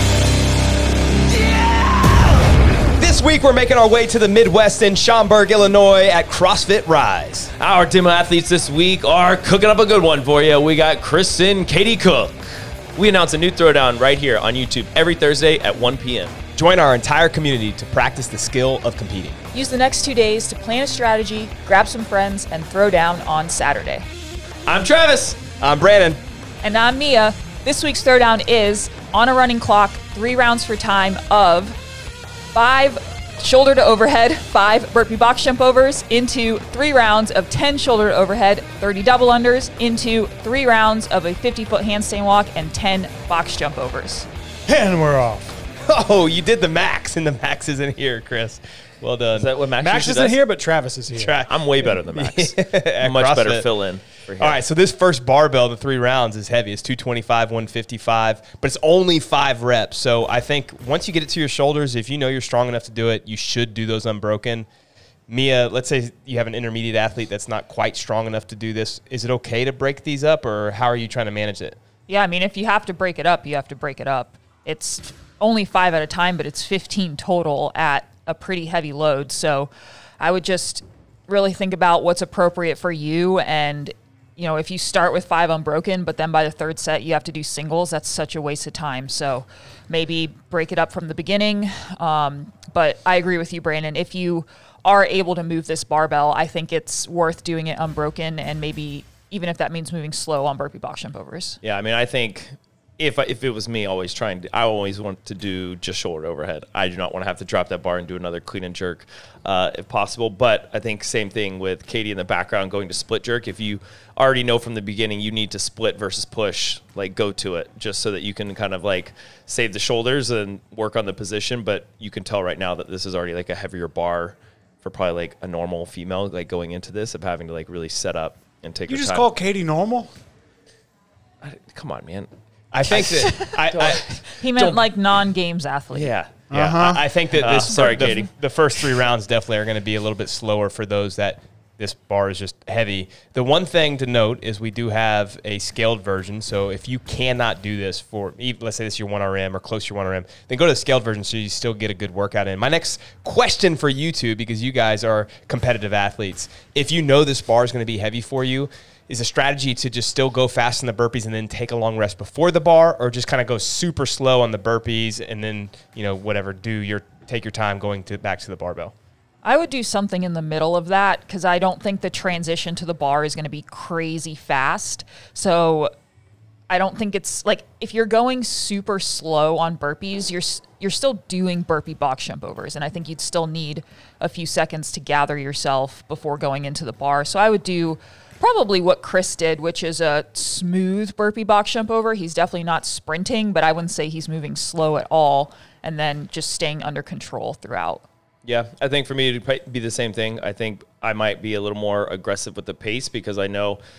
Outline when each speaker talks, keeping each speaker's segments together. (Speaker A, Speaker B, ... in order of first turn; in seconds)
Speaker A: 1.3-2.3, 7.6-16.4, 24.6-25.4, 49.3-50.4, 51.4-54.6, 101.6-129.3, 131.4-132.3, 132.8-134.2, 135.9-136.4, 137.3-138.9, 198.4-203.8
Speaker B: 3.0-7.5, 16.5-19.4, 25.6-26.2, 45.8-49.5, 51.1-53.7, 54.4-64.7, 65.3-71.8, 132.7-134.8, 136.5-168.9
Speaker C: 19.5-24.1, 26.6-31.8, 32.5-44.3, 72.1-101.6, 133.2-133.5, 134.2-136.1, 169.4-175.9, 176.7-198.0
Speaker D: 44.7-45.6, 49.8-51.3, 128.9-130.1, 136.5-137.0